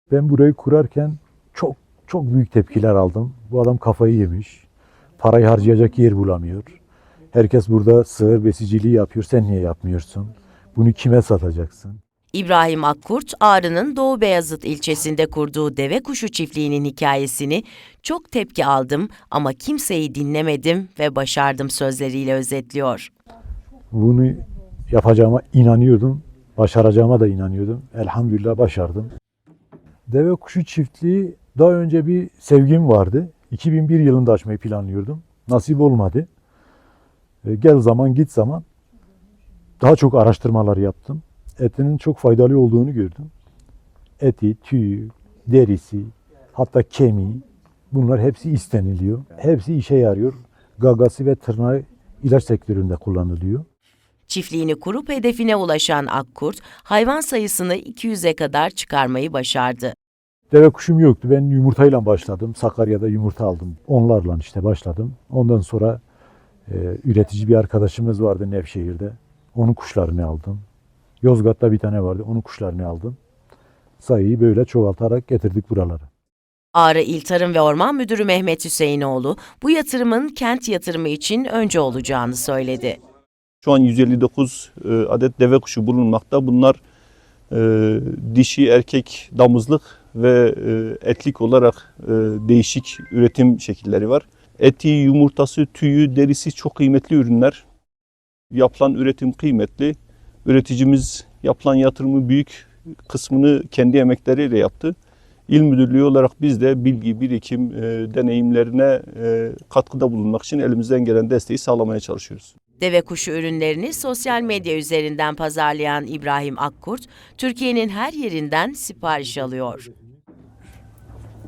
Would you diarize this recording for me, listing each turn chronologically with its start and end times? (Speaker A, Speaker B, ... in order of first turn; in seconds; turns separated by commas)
Speaker A: 0.1-4.7, Speaker A: 5.2-6.8, Speaker A: 7.3-12.0, Speaker B: 12.3-23.1, Speaker A: 23.9-29.1, Speaker A: 30.1-36.3, Speaker A: 37.4-38.6, Speaker A: 39.8-43.3, Speaker A: 44.2-53.6, Speaker B: 54.3-59.9, Speaker A: 60.5-66.0, Speaker A: 66.7-70.6, Speaker A: 71.2-73.2, Speaker A: 74.0-76.1, Speaker B: 76.7-83.0, Speaker C: 83.6-86.8, Speaker C: 87.5-97.6, Speaker C: 98.5-104.9, Speaker C: 105.5-112.5, Speaker B: 112.8-119.9